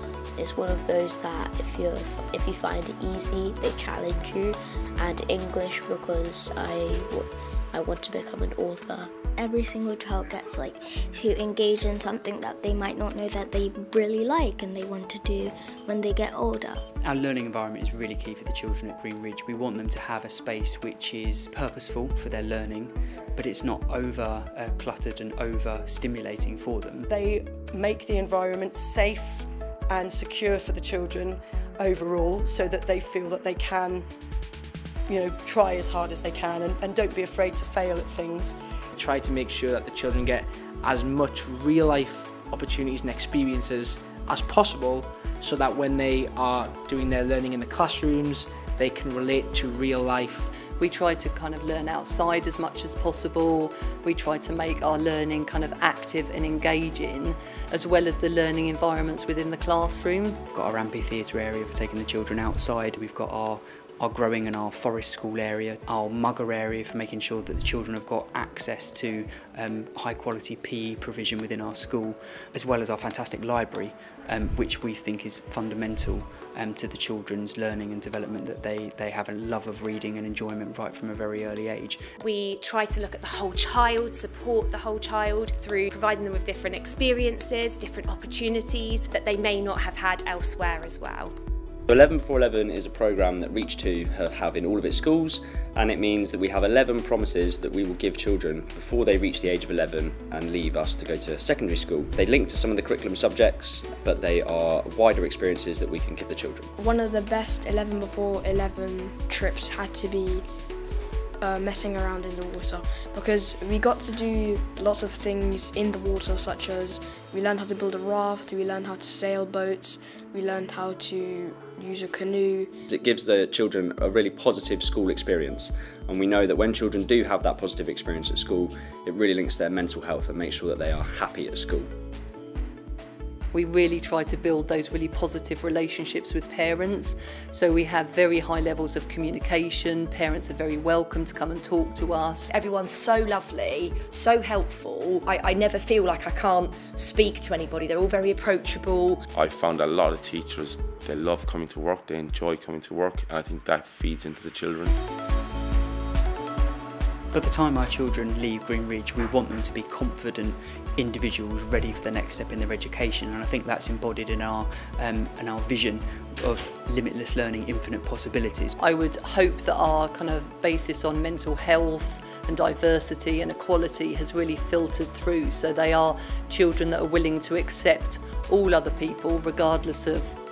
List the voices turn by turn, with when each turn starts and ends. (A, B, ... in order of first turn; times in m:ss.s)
0:00.4-0:09.1 A
0:09.4-0:16.8 B
0:17.0-0:27.1 C
0:27.1-0:34.0 D
0:35.1-0:38.5 D
0:39.0-0:50.5 E
0:50.8-1:00.4 F
1:00.5-1:22.0 C
1:22.2-1:31.3 G
1:31.9-1:46.7 H
1:46.8-1:50.5 I
1:51.4-2:02.7 I
2:02.9-2:11.9 H
2:13.5-2:22.5 F
2:22.5-2:29.2 J
2:29.3-2:35.0 K
2:37.3-2:48.7 C
2:48.8-3:00.4 F